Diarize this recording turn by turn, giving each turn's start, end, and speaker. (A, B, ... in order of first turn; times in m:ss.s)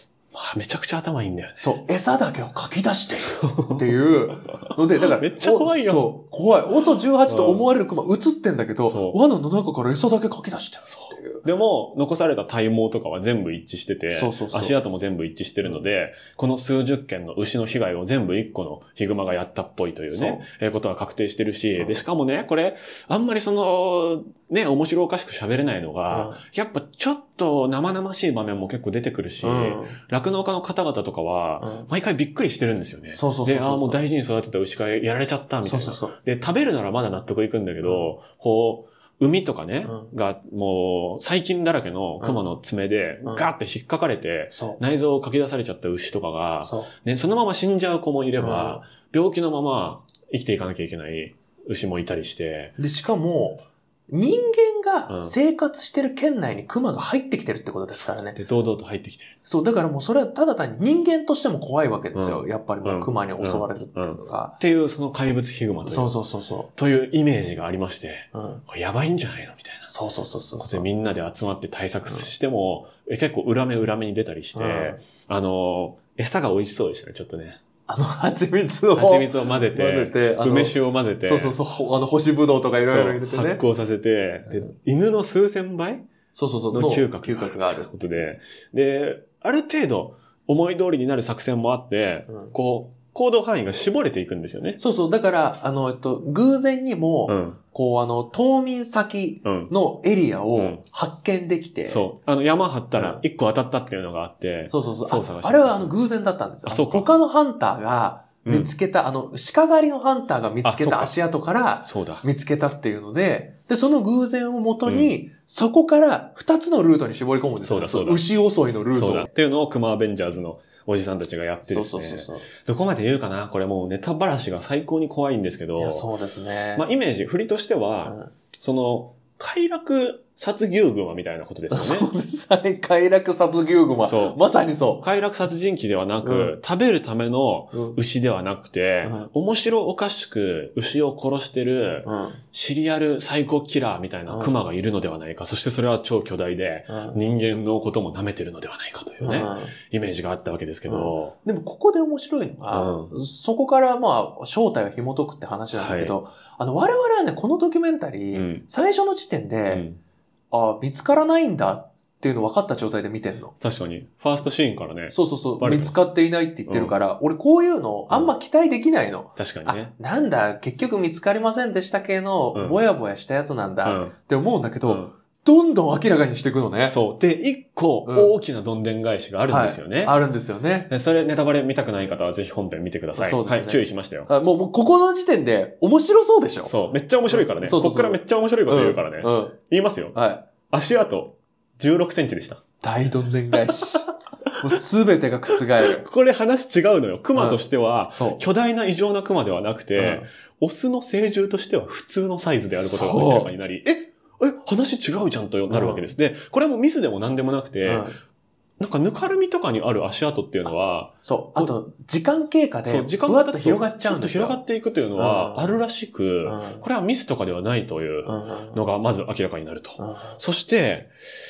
0:00.3-0:01.8 A
0:01.6-0:11.4 B
0:03.2-0:03.9 A
0:04.5-0:06.1 A
0:07.3-0:07.6 A
0:08.9-0:09.2 A
0:10.9-0:52.7 A
0:14.1-0:14.8 B
0:20.1-0:20.4 B
0:26.1-0:26.4 B
0:29.4-0:30.0 B
0:31.6-0:31.9 B
0:33.1-0:34.0 B
0:35.6-0:36.2 B
0:37.8-0:38.1 B
0:39.8-0:40.1 B
0:42.2-0:42.5 B
0:44.5-0:44.8 B
0:46.6-0:46.9 B
0:48.4-0:48.8 B
0:52.8-0:58.4 B
0:55.1-0:55.4 A
0:58.3-0:59.3 A
0:59.4-1:04.6 B
1:02.1-1:06.1 A
1:05.8-1:06.7 B
1:06.7-1:09.9 A
1:08.3-1:08.6 B
1:09.9-1:10.8 B
1:10.6-1:17.6 A
1:14.5-1:15.0 B
1:17.9-1:23.6 B
1:18.9-1:21.6 A
1:22.8-1:26.0 A
1:26.3-1:27.9 B
1:26.7-1:34.8 A
1:34.8-1:42.1 B
1:37.3-1:37.6 A
1:39.4-1:39.7 A
1:40.5-1:40.8 A
1:41.9-1:45.9 A
1:42.9-1:43.2 B
1:44.7-1:59.3 B
1:46.6-1:47.1 A
1:48.4-1:48.7 A
1:50.6-1:51.1 A
1:51.8-1:52.2 A
1:54.8-1:55.1 A
1:57.6-1:58.2 A
1:58.9-2:06.1 A
2:01.6-2:02.5 B
2:05.8-2:06.8 B
2:06.7-2:12.1 A
2:08.0-2:08.3 B
2:11.7-2:15.1 B
2:14.0-2:14.4 A
2:15.0-2:31.3 A
2:16.2-2:16.5 B
2:17.7-2:18.0 B
2:19.0-2:19.3 B
2:22.0-2:22.4 B
2:24.3-2:24.6 B
2:26.9-2:27.2 B
2:29.2-2:29.7 B
2:30.9-2:39.8 B
2:32.7-2:33.1 A
2:35.7-2:36.2 A
2:38.3-2:38.6 A
2:39.7-2:40.0 A
2:40.5-2:43.5 B
2:43.6-2:46.0 A
2:45.1-2:57.0 B
2:46.7-2:47.0 A
2:49.4-2:49.9 A
2:52.5-2:52.8 A
2:53.8-2:54.1 A
2:54.8-2:55.1 A
2:56.9-3:00.2 A
2:58.0-2:58.4 B
2:59.5-3:00.9 B
3:00.9-3:04.3 A
3:03.2-3:06.7 B
3:06.6-3:12.6 A
3:07.3-3:09.6 B
3:10.1-3:10.4 B
3:12.8-3:16.0 B
3:13.7-3:14.0 A
3:15.5-3:28.1 A
3:17.3-3:18.4 B
3:20.0-3:20.3 B
3:22.7-3:23.5 B
3:25.7-3:26.1 B
3:27.8-3:28.2 B
3:28.8-3:31.8 A
3:31.2-3:34.6 B
3:32.8-3:41.1 A
3:35.1-3:35.8 B
3:36.4-3:36.8 B
3:38.2-3:38.8 B
3:40.0-3:40.4 B